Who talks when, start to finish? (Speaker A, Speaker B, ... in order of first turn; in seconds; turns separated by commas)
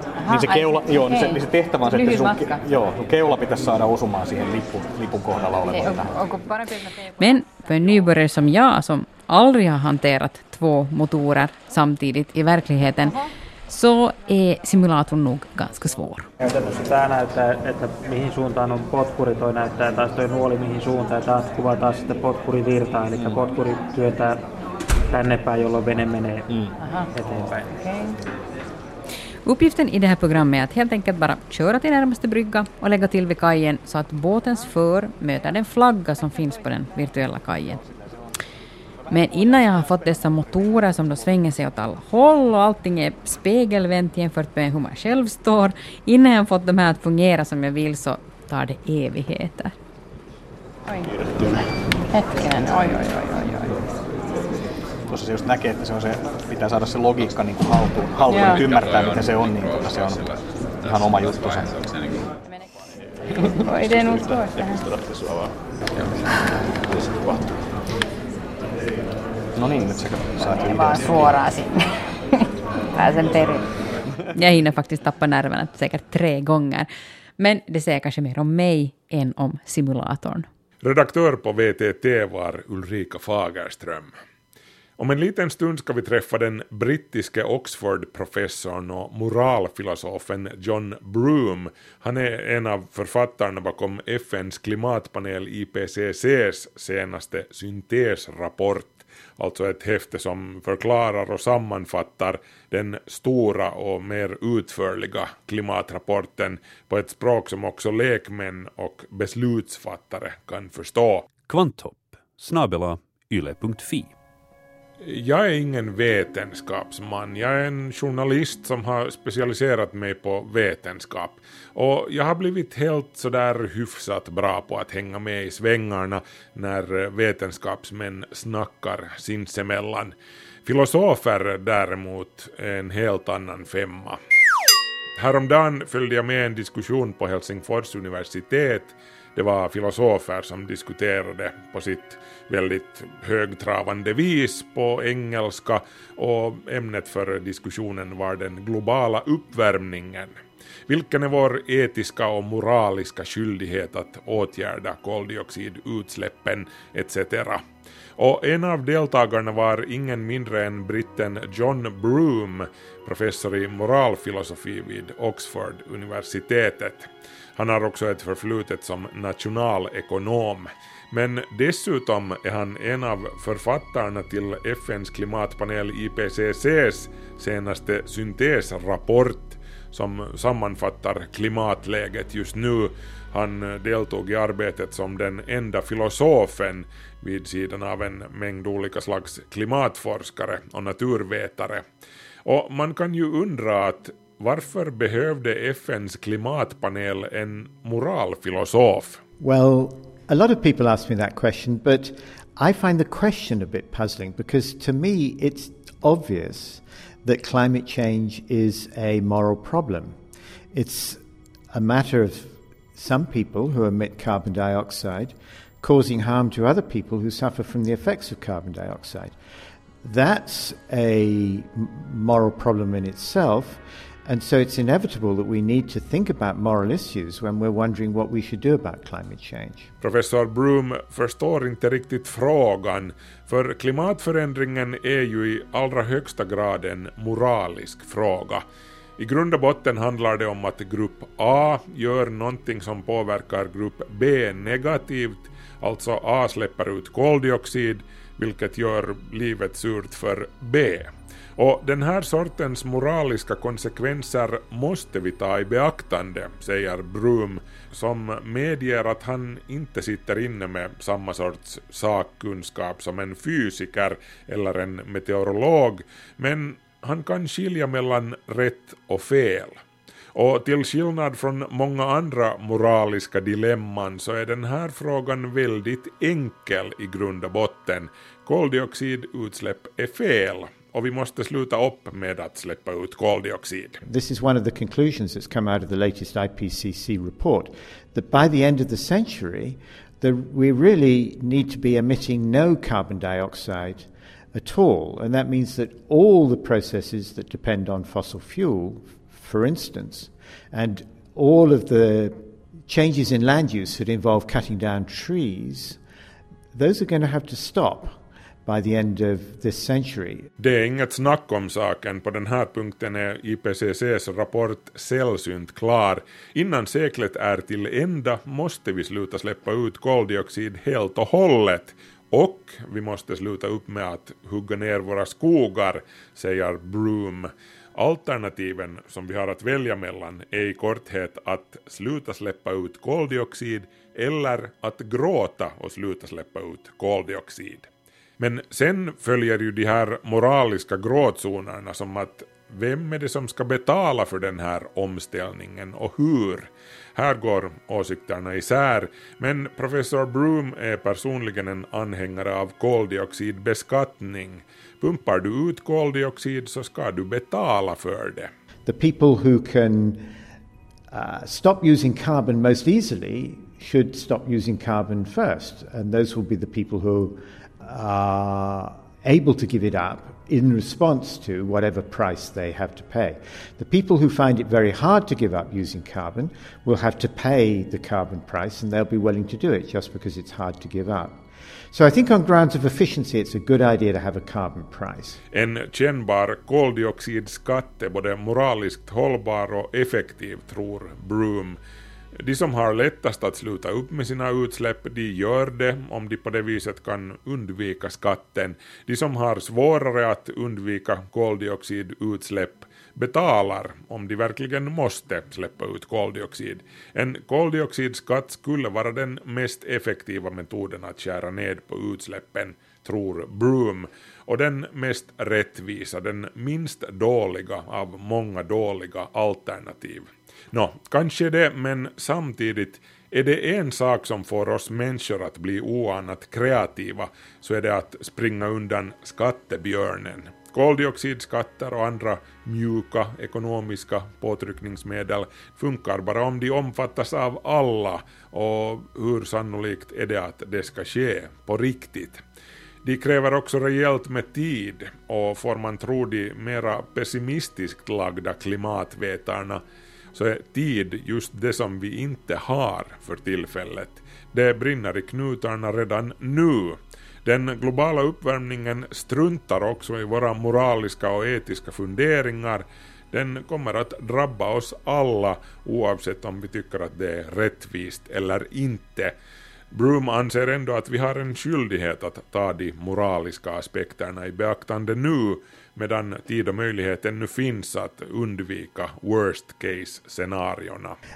Speaker A: 0.2-2.6, Speaker B: 0.2-6.2, Speaker A: 5.7-16.3, Speaker C: 16.4-24.4, Speaker B: 23.1-23.4, Speaker C: 25.1-26.4, Speaker B: 26.5-26.7, Speaker A: 26.8-27.1, Speaker C: 27.1-28.2, Speaker A: 29.4-37.8, Speaker A: 39.1-49.7, Speaker B: 51.1-51.6, Speaker A: 52.1-53.7, Speaker B: 55.1-61.9, Speaker A: 58.3-58.7, Speaker A: 63.6-64.8, Speaker B: 65.0-65.5, Speaker B: 69.5-71.3, Speaker A: 70.5-71.8, Speaker A: 72.9-73.6, Speaker A: 74.3-76.9, Speaker A: 77.4-80.5, Speaker D: 80.8-84.1, Speaker D: 85.0-111.3, Speaker E: 111.4-114.1, Speaker D: 115.0-134.2, Speaker D: 135.2-150.4, Speaker D: 150.9-157.6, Speaker D: 158.2-191.8, Speaker D: 192.4-199.2, Speaker F: 199.4-210.2, Speaker F: 210.7-211.2, Speaker F: 211.7-219.3, Speaker F: 220.0-229.9, Speaker D: 230.0-238.6, Speaker D: 239.2-269.8, Speaker D: 270.3-284.0, Speaker F: 284.0-306.0, Speaker F: 306.7-310.5, Speaker D: 310.6-337.9, Speaker D: 338.4-358.5, Speaker F: 358.8-360.3, Speaker F: 361.1-385.4, Speaker D: 385.5-391.8, Speaker D: 392.4-442.4, Speaker D: 443.0-449.8, Speaker D: 450.3-469.3, Speaker D: 469.9-481.2